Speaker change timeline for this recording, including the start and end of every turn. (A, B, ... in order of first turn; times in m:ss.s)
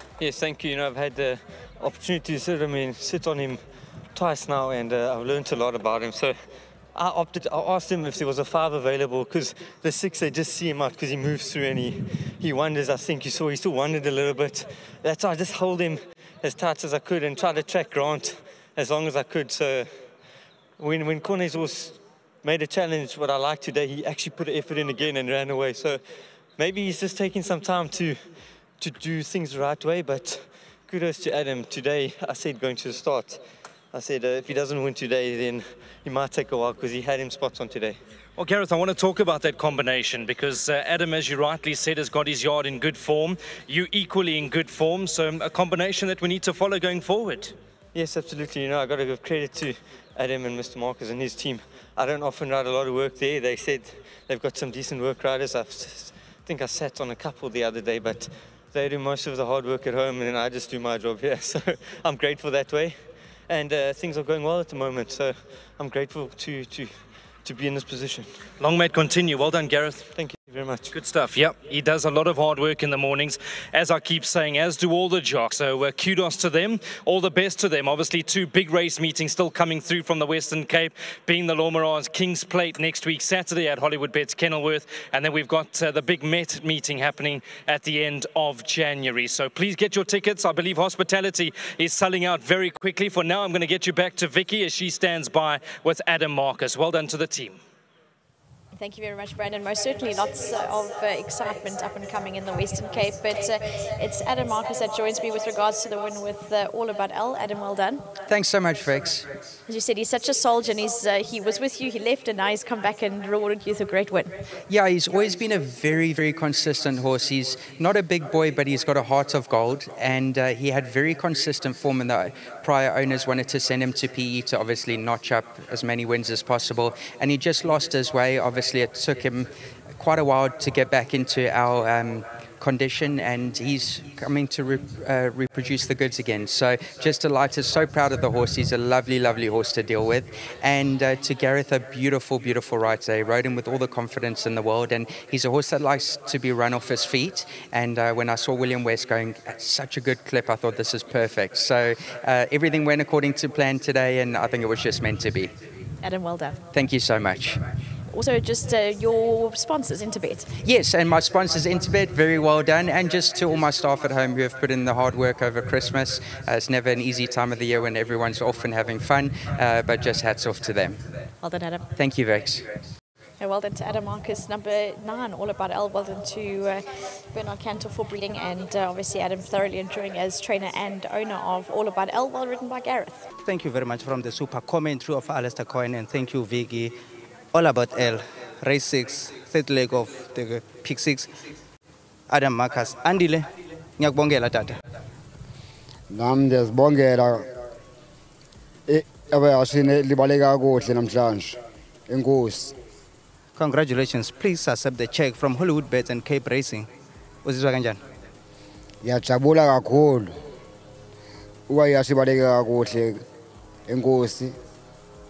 0:00.2-0:06.4 A
0:06.9-0:20.3 A
0:20.8-0:38.0 A
0:38.4-0:47.6 B
0:47.9-1:08.4 A
1:08.6-1:10.1 B
1:10.1-1:10.9 A
1:10.9-1:37.6 B
1:38.7-1:48.1 C
1:48.3-1:49.3 D
1:49.7-1:54.4 C
1:54.7-2:35.5 D
2:36.0-2:36.6 C
2:36.7-2:37.6 D
2:38.1-2:40.5 C
2:40.6-2:51.0 D
2:51.4-2:51.9 C
2:51.9-2:52.7 D
2:53.4-3:03.3 C
3:03.4-3:07.0 E
3:07.5-3:11.3 E
3:12.3-3:14.8 E
3:16.1-3:17.5 F
3:18.9-3:21.6 F
3:22.1-3:22.8 F
3:23.6-3:26.9 E
3:27.4-3:28.0 E
3:29.0-3:30.3 F
3:31.7-3:33.2 F
3:33.9-3:34.5 F